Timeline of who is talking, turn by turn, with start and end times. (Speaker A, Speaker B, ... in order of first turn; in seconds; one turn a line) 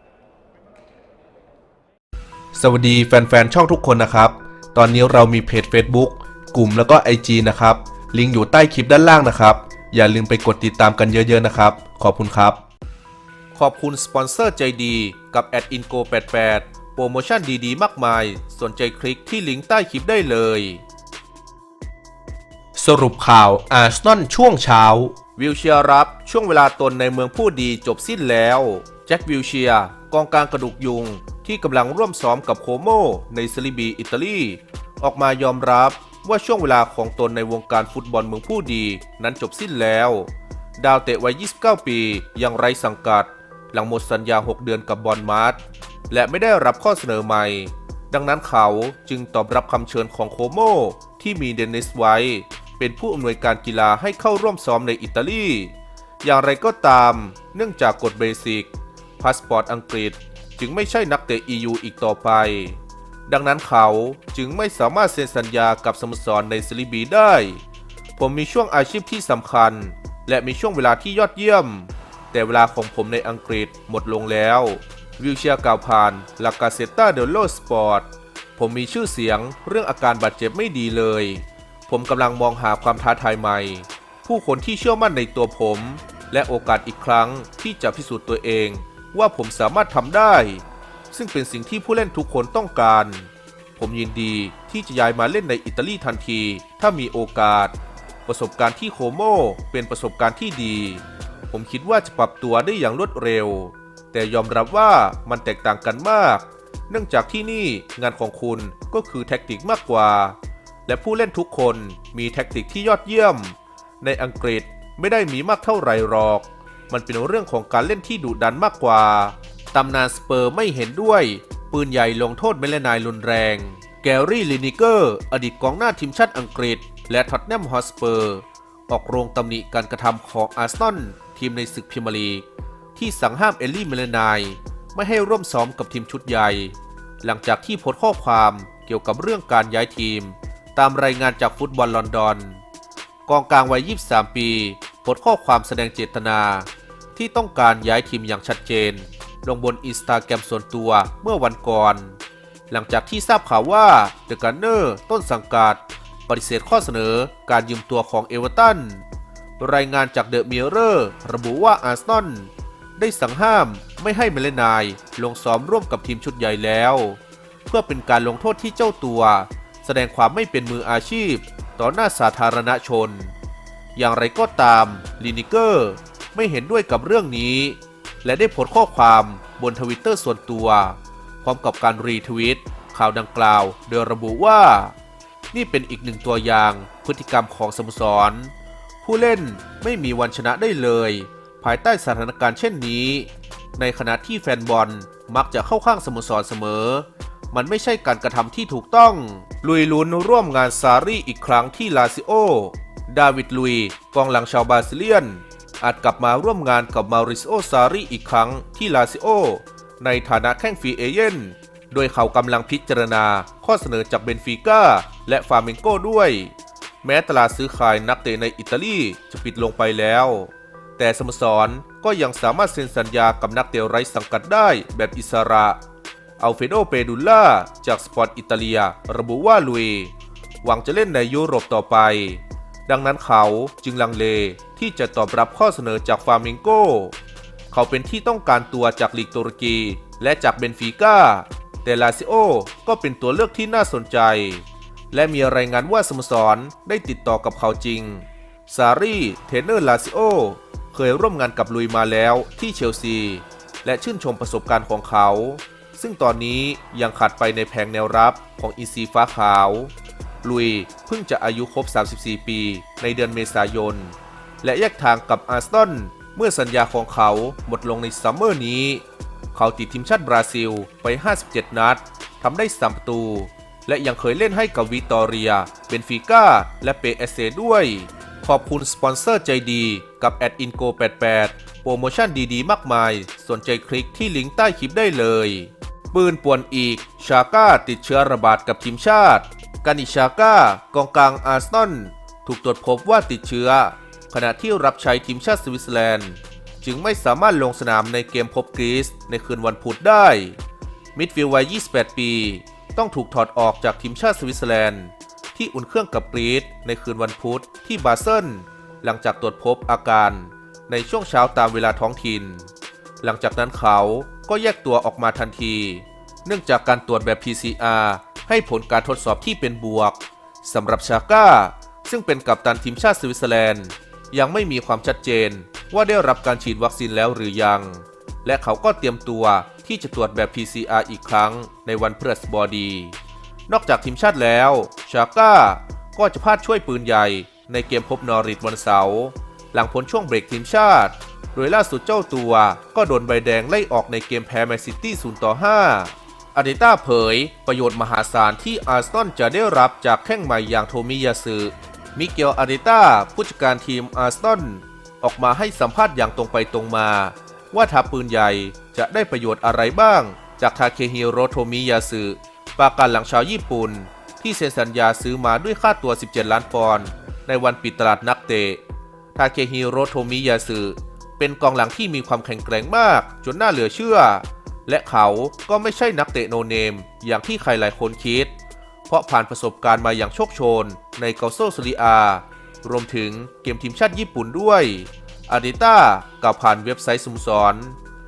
Speaker A: 2.5-12.6
Speaker A: 13.5-20.8
Speaker A: 22.7-67.6
Speaker A: 68.2-142.6
Speaker A: 143.2-159.0
Speaker A: 159.6-173.3
Speaker A: 173.9-184.9
Speaker A: 185.5-225.8
Speaker A: 226.4-237.1
Speaker A: 237.7-300.6
Speaker A: 301.1-312.7
Speaker A: 313.2-333.1
Speaker A: 333.7-368.8
Speaker A: 369.3-378.5
Speaker A: 379.1-388.0